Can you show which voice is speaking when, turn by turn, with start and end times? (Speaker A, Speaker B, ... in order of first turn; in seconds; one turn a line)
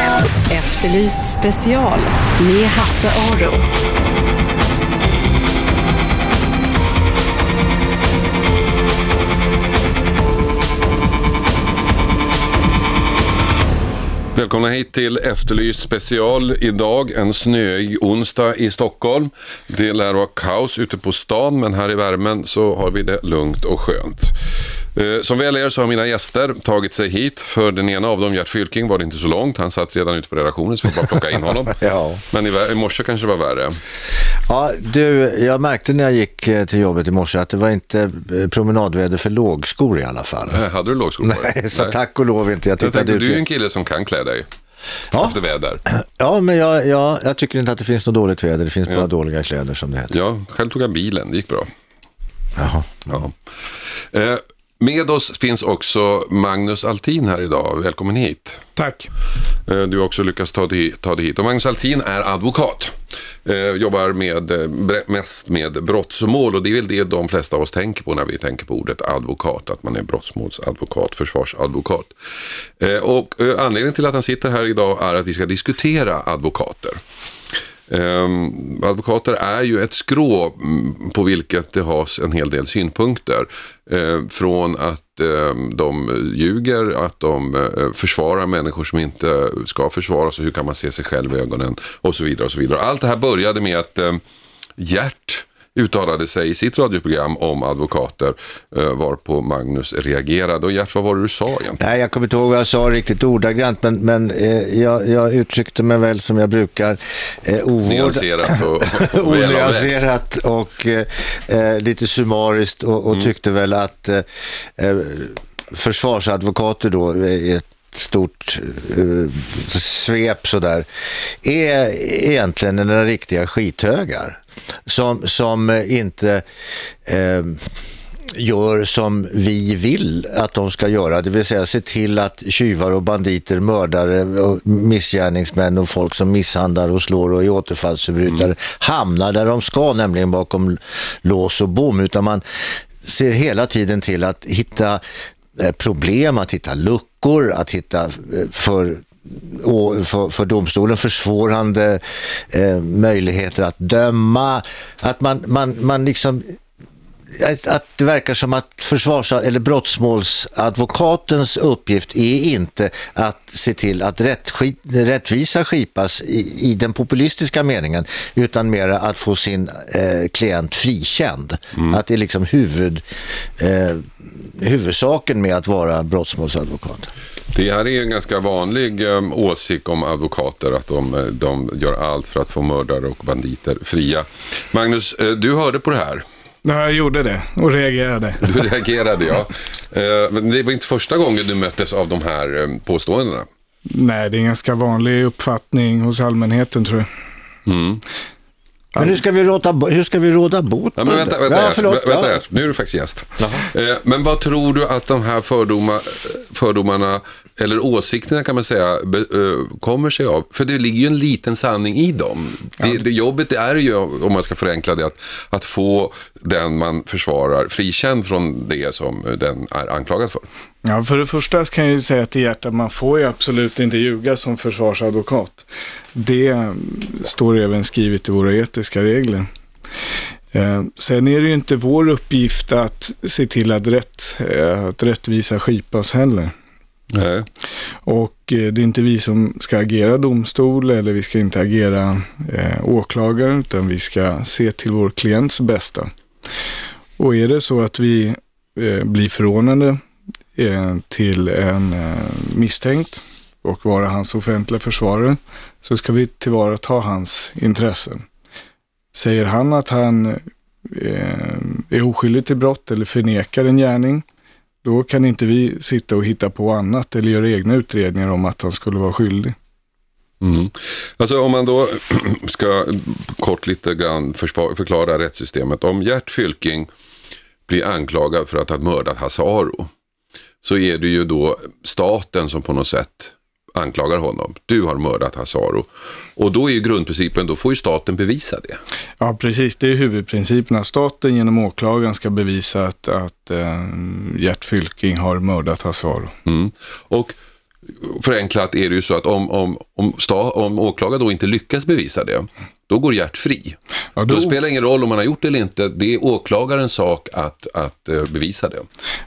Speaker A: 0.5-3.6
Speaker B: 14.3-24.3
Speaker B: 24.9-31.8
Speaker C: 31.8-32.2
Speaker B: 32.3-33.8
Speaker C: 34.5-40.6
Speaker B: 40.5-42.0
Speaker C: 41.2-43.4
Speaker B: 42.8-44.5
Speaker B: 45.1-45.8
Speaker C: 45.9-50.1
Speaker B: 50.1-51.7
Speaker C: 52.5-53.2
Speaker B: 54.1-58.6
Speaker D: 58.8-59.1
Speaker B: 59.6-72.1
Speaker B: 72.8-77.0
Speaker B: 77.9-94.2
Speaker B: 94.8-101.8
Speaker C: 101.8-120.9
Speaker B: 107.8-110.0
Speaker C: 121.4-126.4
Speaker C: 127.0-127.7
Speaker C: 128.3-142.4
Speaker C: 143.0-145.0
Speaker C: 145.6-156.6
Speaker C: 157.3-173.0
Speaker C: 173.6-177.1
Speaker B: 177.5-186.2
Speaker D: 186.6-188.6
Speaker B: 188.4-193.5
Speaker D: 193.9-197.1
Speaker B: 197.7-198.0
Speaker C: 198.9-202.4
Speaker B: 201.0-220.5
Speaker D: 220.8-229.4
Speaker D: 230.5-236.5
Speaker B: 237.1-237.5
Speaker D: 238.1-246.1
Speaker D: 247.2-250.0
Speaker D: 250.6-258.2
Speaker D: 259.1-264.2
Speaker D: 264.8-269.6
Speaker B: 270.4-276.9
Speaker B: 277.7-279.9
Speaker B: 280.6-288.8
Speaker D: 289.2-296.3
Speaker B: 296.4-297.3
Speaker B: 298.0-308.9
Speaker D: 304.2-304.5